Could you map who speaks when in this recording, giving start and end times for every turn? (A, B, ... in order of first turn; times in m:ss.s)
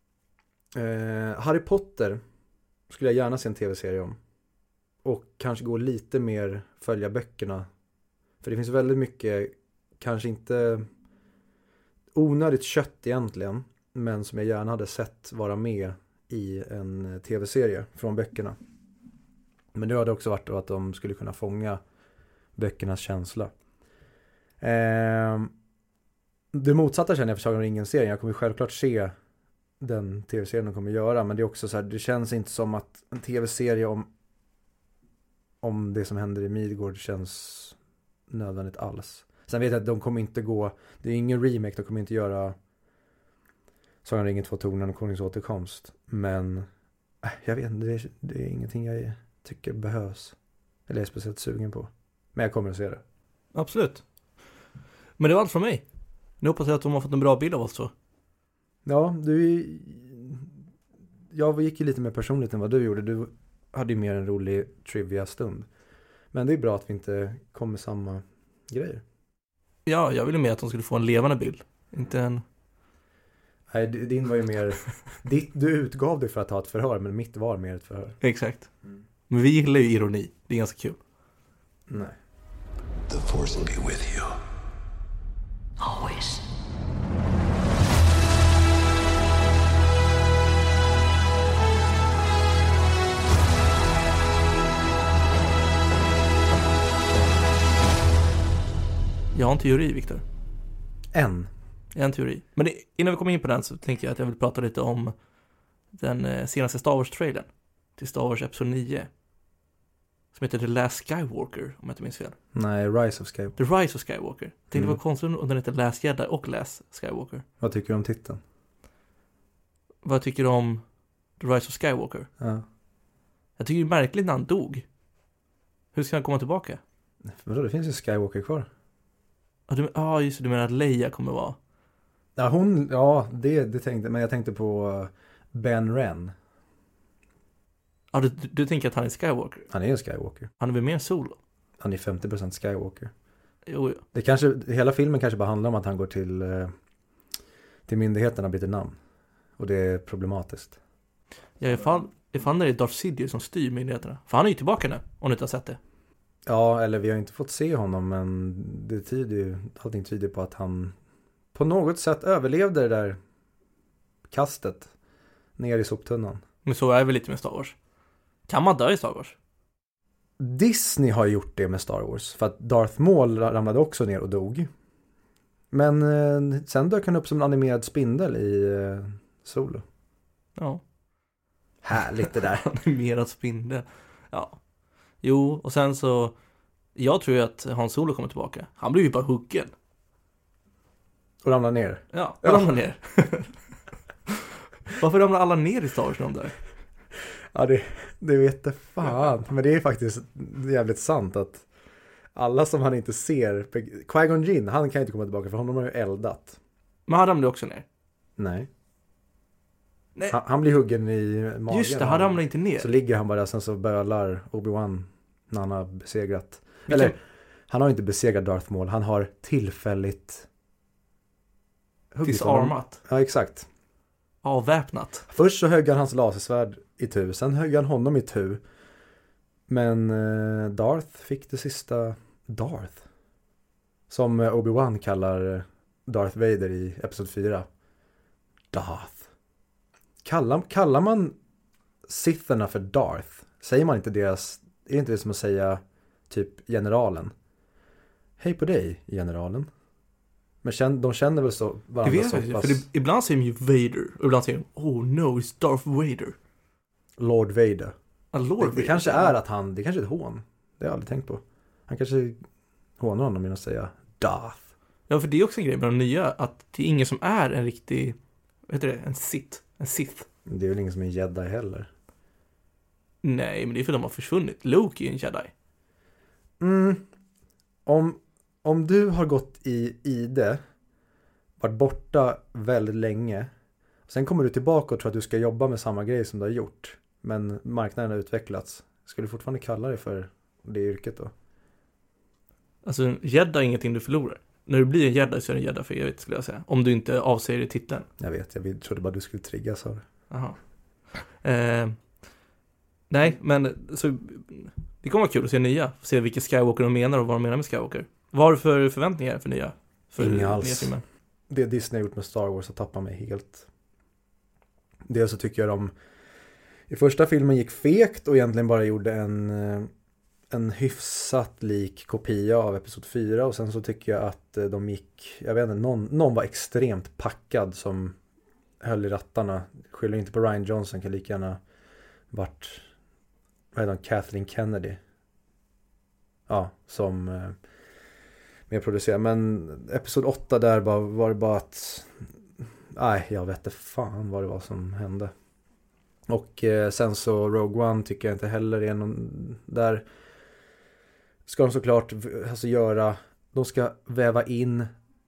0:00.7-0:02.2 A
0:02.9-0:04.2 A
0:05.0-0:07.7 A
0:08.4-0:10.9 A
0:12.1-0:18.6 A
0:19.7-0:21.8 A
0:22.6-0:23.5 A
0:24.6-0:25.5 A
0:26.5-0:29.1 A
0:29.8-0:34.1 A
0:35.6-0:37.8 A
0:38.3-0:42.6 A
0:44.0-0:46.7 A
0:47.2-0:50.4 A
0:50.9-0:53.0 A
0:53.6-0:54.0 B
0:55.2-0:55.8 B
0:56.4-0:57.9 B
0:58.8-1:00.5 A
1:01.3-1:05.7 A
1:06.3-1:09.0 A
1:09.9-1:12.4 B
1:13.7-1:18.2 A
1:18.2-1:18.7 B
1:19.3-1:21.0 B
1:21.9-1:22.2 A
1:23.1-1:24.4 C
1:25.8-1:26.4 C
1:39.3-1:40.2 B
1:41.1-1:41.5 A
1:41.9-1:45.1 B
1:45.9-1:49.1 B
1:50.3-1:52.4 B
1:52.6-1:53.6 A
1:53.6-1:57.4 B
1:57.6-1:58.4 A
2:00.0-2:00.8 B
2:01.4-2:02.3 B
2:02.4-2:02.6 A
2:03.6-2:04.9 B
2:05.9-2:06.8 B
2:07.2-2:08.7 A
2:09.7-2:11.6 B
2:12.4-2:16.3 A
2:18.1-2:19.7 B
2:19.7-2:20.5 A
2:20.6-2:21.4 B
2:21.8-2:23.1 A
2:23.7-2:24.0 B
2:24.1-2:26.7 A
2:27.9-2:29.0 A
2:29.6-2:30.8 A
2:31.6-2:35.8 B
2:36.4-2:41.0 A
2:41.5-2:43.2 A
2:44.3-2:44.9 A
2:45.6-2:46.4 A
2:46.6-2:47.8 B
2:48.5-2:49.4 B
2:50.4-2:54.7 A
2:55.7-2:59.8 A
3:00.6-3:00.8 B
3:01.8-3:02.7 A
3:02.5-3:04.6 B
3:05.2-3:06.4 B
3:07.0-3:09.7 B
3:11.4-3:12.7 A
3:12.1-3:13.6 B
3:14.8-3:16.6 B
3:17.5-3:21.7 A
3:22.3-3:26.6 A
3:27.1-3:27.8 B
3:28.4-3:28.7 A
3:30.3-3:37.2 A
3:31.7-3:32.9 B
3:36.9-3:37.1 B
3:37.7-3:40.5 A
3:42.1-3:43.7 A
3:42.2-3:43.0 B
3:44.4-3:45.3 B
3:45.3-3:48.6 A
3:49.7-3:53.0 A
3:54.1-3:57.7 A
3:58.7-3:59.3 A
4:00.2-4:01.4 A
4:02.0-4:07.3 A
4:08.4-4:09.7 A
4:10.6-4:12.8 A
4:12.0-4:16.4 B
4:17.2-4:18.0 A
4:18.3-4:19.4 B
4:18.6-4:22.4 A
4:23.0-4:24.6 A
4:25.1-4:28.2 B
4:28.7-4:30.3 B
4:30.4-4:31.9 A
4:33.2-4:35.5 B
4:36.6-4:37.0 A
4:37.9-4:40.6 A
4:41.6-4:43.5 A
4:44.1-4:51.3 A
4:52.8-4:58.1 B
4:58.2-5:00.0 A
5:00.3-5:00.6 B
5:01.1-5:02.0 B
5:03.1-5:11.0 B
5:10.2-5:10.9 A
5:11.5-5:13.7 A
5:15.1-5:15.9 A
5:16.9-5:19.9 A
5:20.5-5:28.2 A
5:28.8-5:31.6 A
5:32.3-5:32.9 A
5:33.7-5:35.0 A
5:36.5-5:37.6 A
5:38.7-5:42.3 A
5:42.9-5:45.3 A
5:46.3-5:50.0 A
5:51.4-5:54.9 A